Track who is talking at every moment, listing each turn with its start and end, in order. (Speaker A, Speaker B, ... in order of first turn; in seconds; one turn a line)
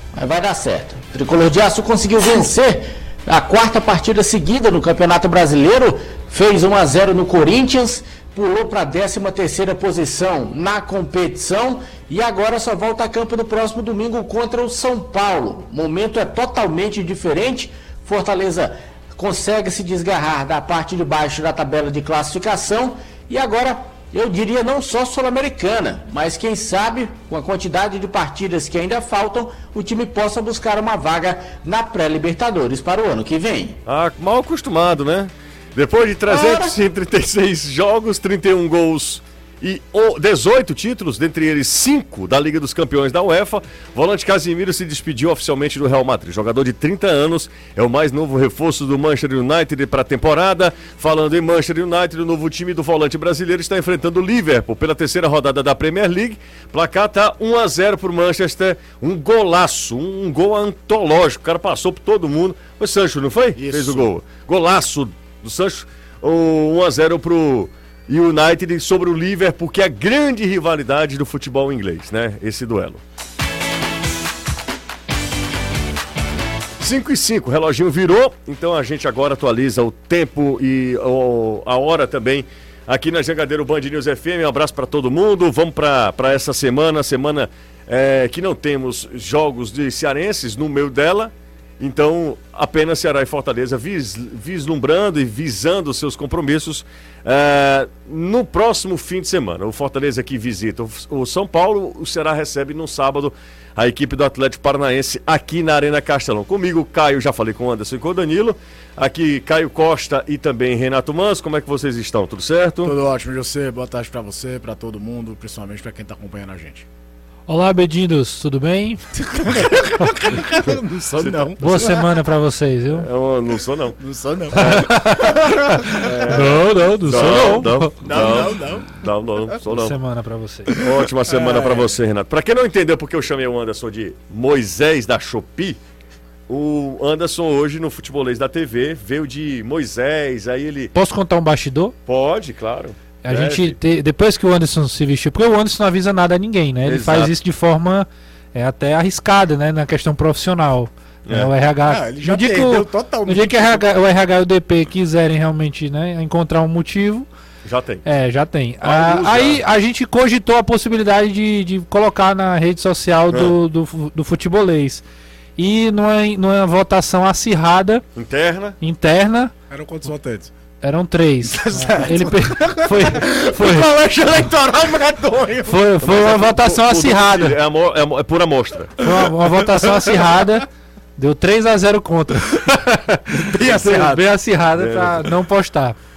Speaker A: 0.1-33.8
Speaker B: 33.9-73.0
Speaker A: 36.3-36.7
Speaker C: 63.5-64.1
Speaker B: 76.8-112.9
Speaker C: 112.8-116.8
Speaker D: 117.5-120.3
Speaker C: 119.4-122.1
Speaker B: 121.2-121.8
Speaker D: 121.6-123.1
Speaker B: 122.9-124.0
Speaker C: 124.0-124.8
Speaker B: 124.5-126.3
Speaker D: 124.6-128.3
Speaker C: 125.7-129.0
Speaker B: 127.0-130.0
Speaker D: 129.6-130.8
Speaker C: 130.7-131.9
Speaker B: 130.8-135.8
Speaker B: 136.5-140.9
Speaker D: 140.9-141.9
Speaker B: 142.1-143.8
Speaker D: 143.2-157.2
Speaker B: 146.8-147.3
Speaker B: 151.2-151.5
Speaker C: 151.8-153.9
Speaker B: 157.7-158.0
Speaker D: 158.0-165.0
Speaker B: 158.8-159.6
Speaker B: 163.3-163.5
Speaker D: 165.6-168.0
Speaker B: 168.2-168.8
Speaker D: 168.8-169.5
Speaker C: 169.7-170.5
Speaker D: 170.8-173.9
Speaker C: 171.4-175.8
Speaker D: 175.7-177.6
Speaker B: 176.0-179.1
Speaker D: 179.0-185.9
Speaker C: 179.0-180.5
Speaker C: 183.4-184.2
Speaker B: 183.5-183.9
Speaker B: 184.7-185.4